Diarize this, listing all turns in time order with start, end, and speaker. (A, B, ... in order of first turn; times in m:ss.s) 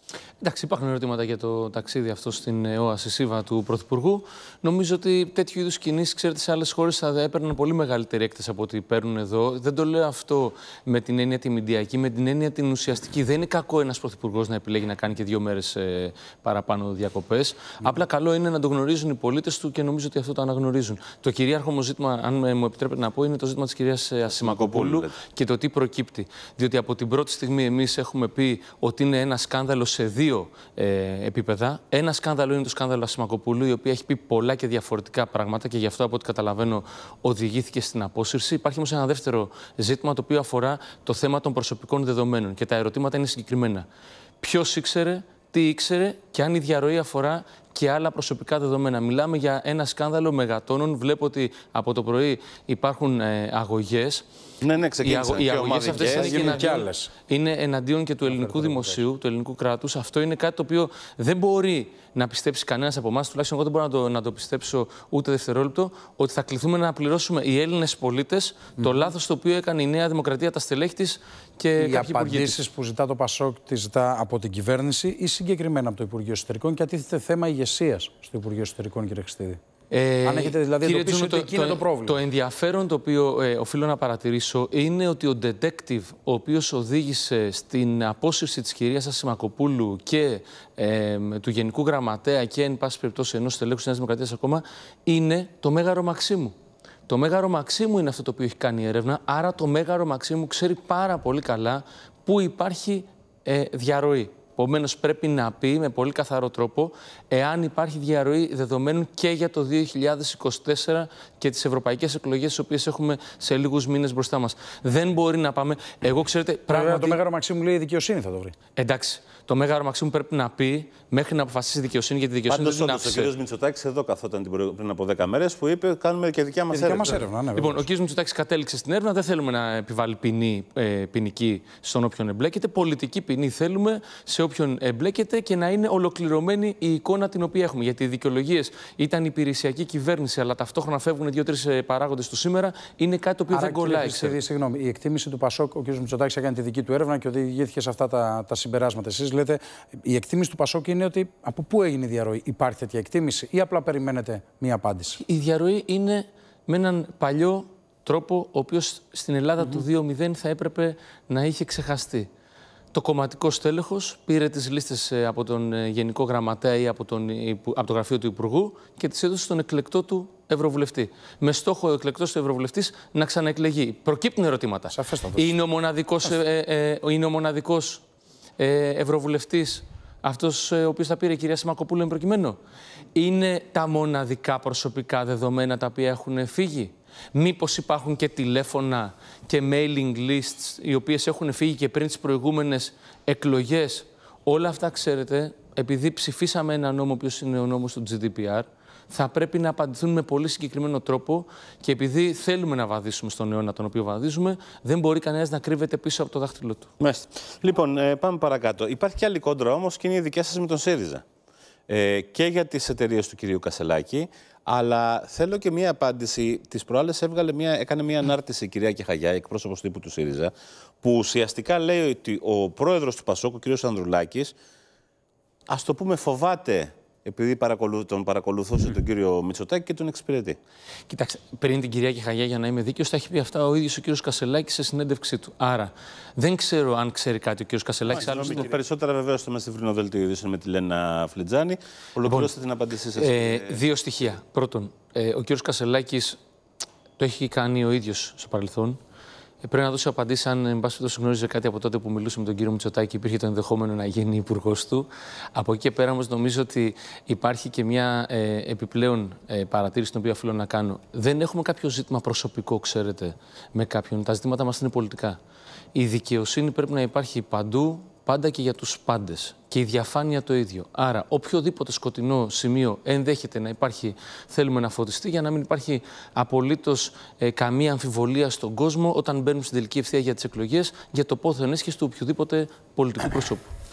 0:00.4-0:43.9 A
0:24.3-0:25.1 B
0:44.4-0:54.2 A
0:54.6-0:56.6 B
0:55.0-1:12.6 A
0:56.0-0:57.1 C
0:58.3-0:59.0 C
1:08.8-1:09.1 C
1:11.8-1:19.6 C
1:19.9-1:36.6 A
1:20.2-1:22.2 C
1:37.1-1:57.2 A
1:56.7-1:58.5 C
1:58.8-2:03.3 A
2:02.5-2:07.3 B
2:06.7-2:07.9 C
2:07.5-2:24.4 A
2:23.5-2:35.2 C
2:35.2-2:42.3 A
2:42.9-2:58.0 A
2:54.9-2:55.5 C
2:58.6-3:02.6 A
3:03.2-3:26.9 A
3:27.0-3:31.2 B
3:31.9-3:44.6 B
3:45.7-3:50.6 B
3:51.1-3:58.7 A
3:58.1-4:03.8 B
4:02.2-4:02.5 A
4:03.2-4:06.4 A
4:07.2-4:09.0 A
4:09.6-4:25.4 A
4:26.0-4:43.7 A